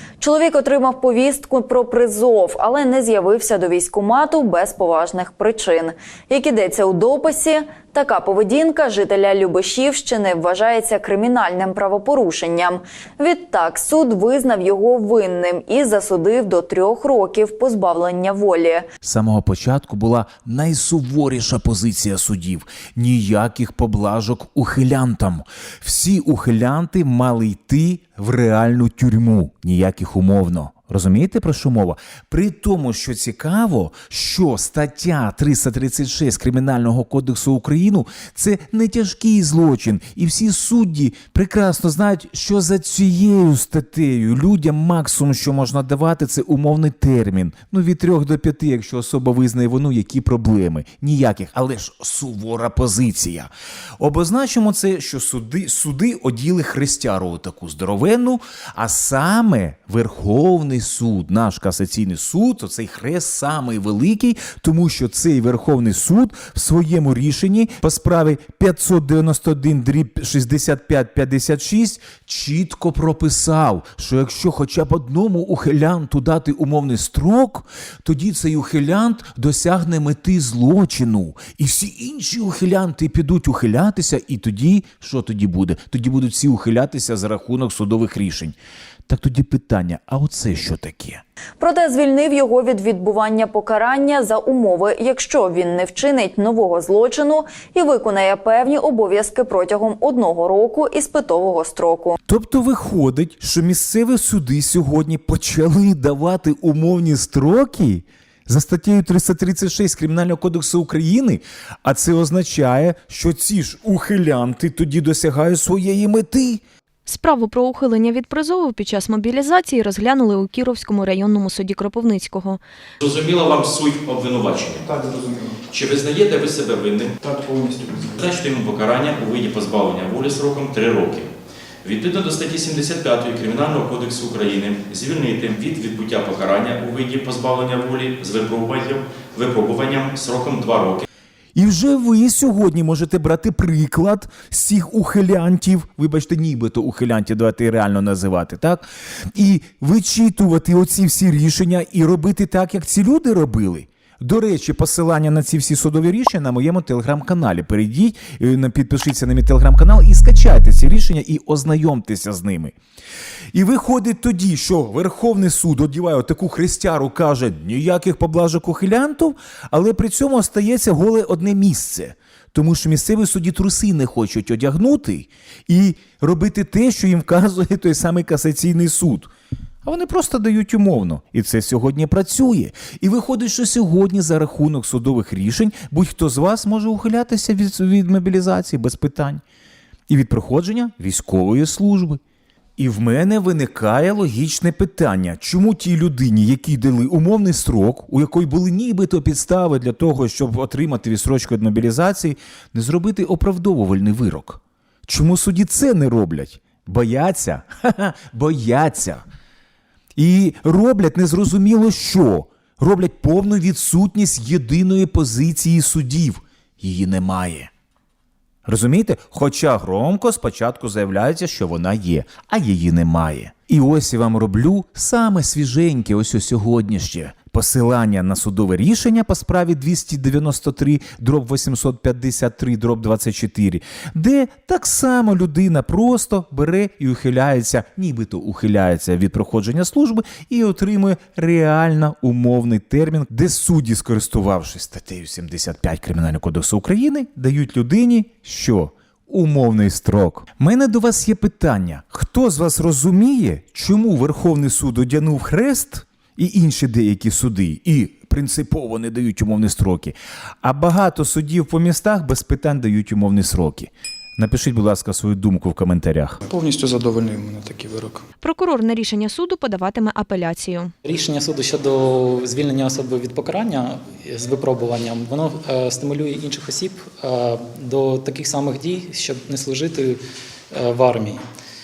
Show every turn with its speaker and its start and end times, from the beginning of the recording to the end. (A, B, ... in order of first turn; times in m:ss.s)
0:00.2-0:18.9 A
0:19.0-1:28.6 B
1:29.1-1:31.2 B
1:31.6-1:42.2 A
1:42.3-1:56.6 B
1:57.1-2:02.6 C
2:03.0-2:04.9 D
2:04.8-2:05.6 E
2:05.7-2:07.2 D
2:07.2-2:08.2 E
2:08.2-2:11.3 D
2:11.8-2:21.1 D
2:21.6-2:42.8 B
2:43.5-2:59.3 B
2:59.8-3:09.4 B
3:10.1-3:12.2 B
3:12.8-3:29.2 B
3:30.2-3:37.7 B
3:38.7-4:26.4 B
4:26.4-4:28.2 E
4:28.4-4:30.9 C
4:31.0-4:40.2 F
4:40.7-4:41.4 F